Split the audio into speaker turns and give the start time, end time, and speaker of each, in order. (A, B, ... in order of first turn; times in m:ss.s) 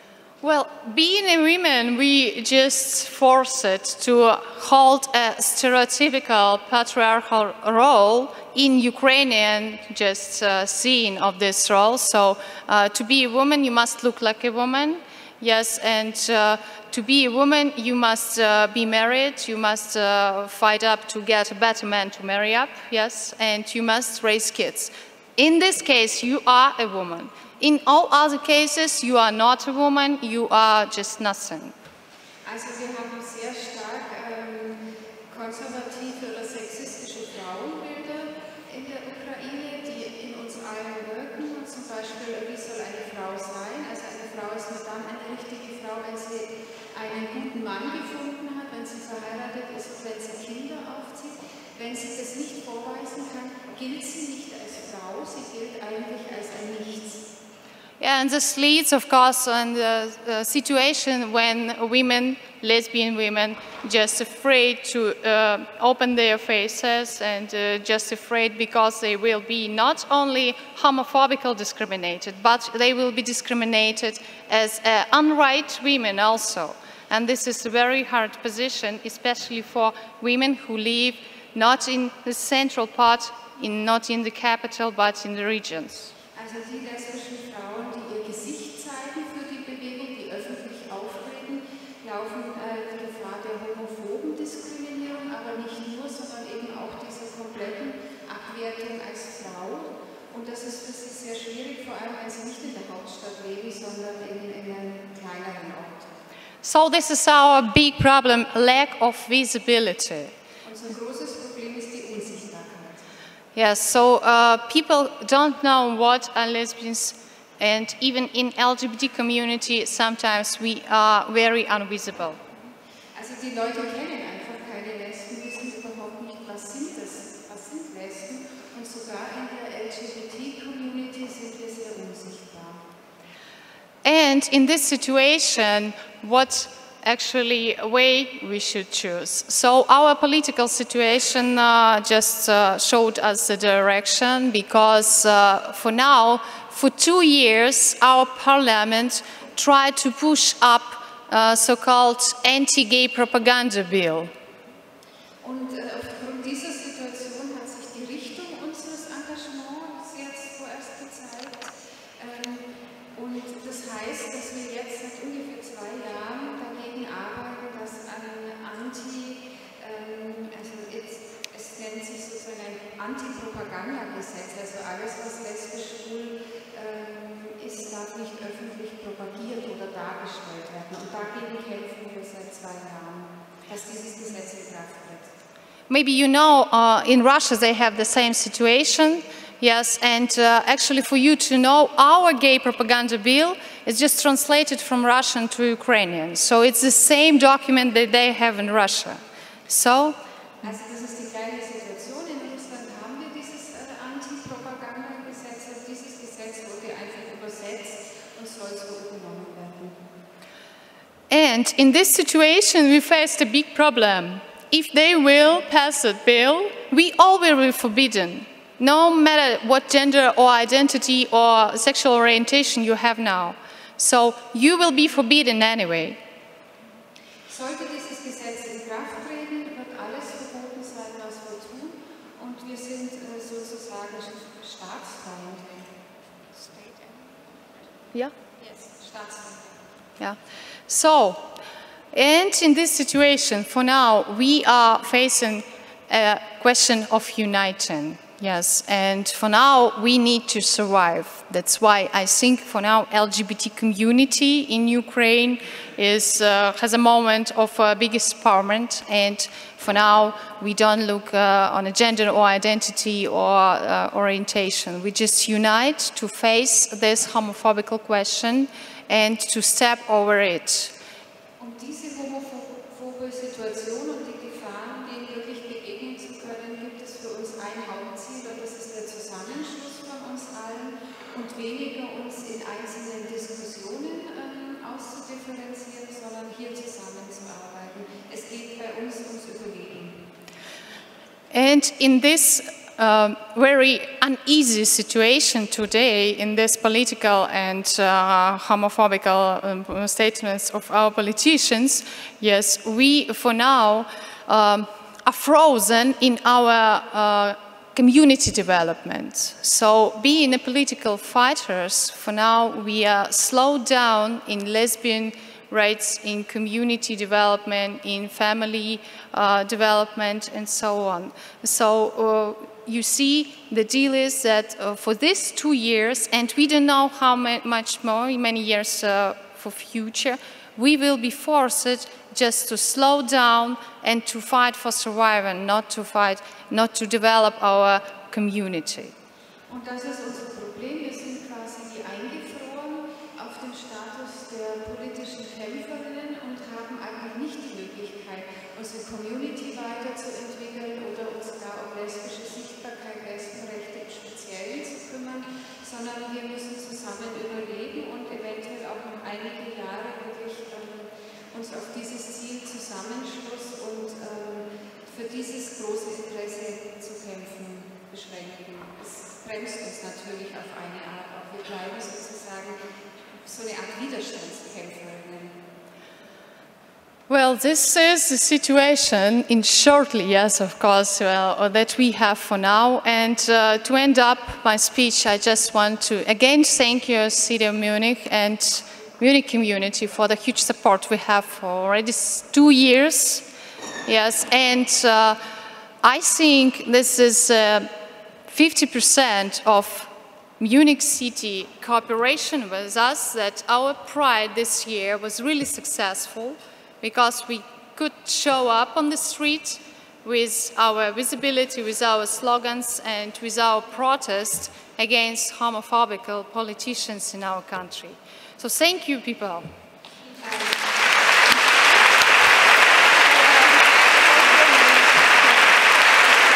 0:00.4-0:31.7 A
0:32.4-0:57.3 B
0:58.0-1:26.1 A
1:26.3-1:46.2 B
1:46.6-1:50.3 A
1:50.6-1:53.0 B
1:53.5-2:02.4 A
2:03.1-2:12.8 B
2:14.0-2:34.3 A
2:35.4-3:05.3 B
3:05.9-3:20.2 A
3:20.6-3:30.0 B
3:31.3-3:46.2 A
3:47.5-3:55.9 B
3:56.5-3:57.3 B
3:58.6-3:59.8 B
4:00.2-4:01.6 A
4:02.1-4:30.9 A
4:31.6-4:50.3 B
4:51.5-5:39.1 A
5:39.7-6:15.7 B
6:17.3-6:33.5 A
6:34.0-6:35.4 A
6:36.0-6:37.9 A
6:38.5-6:59.7 A
7:00.4-7:01.1 B
7:03.3-7:05.4 B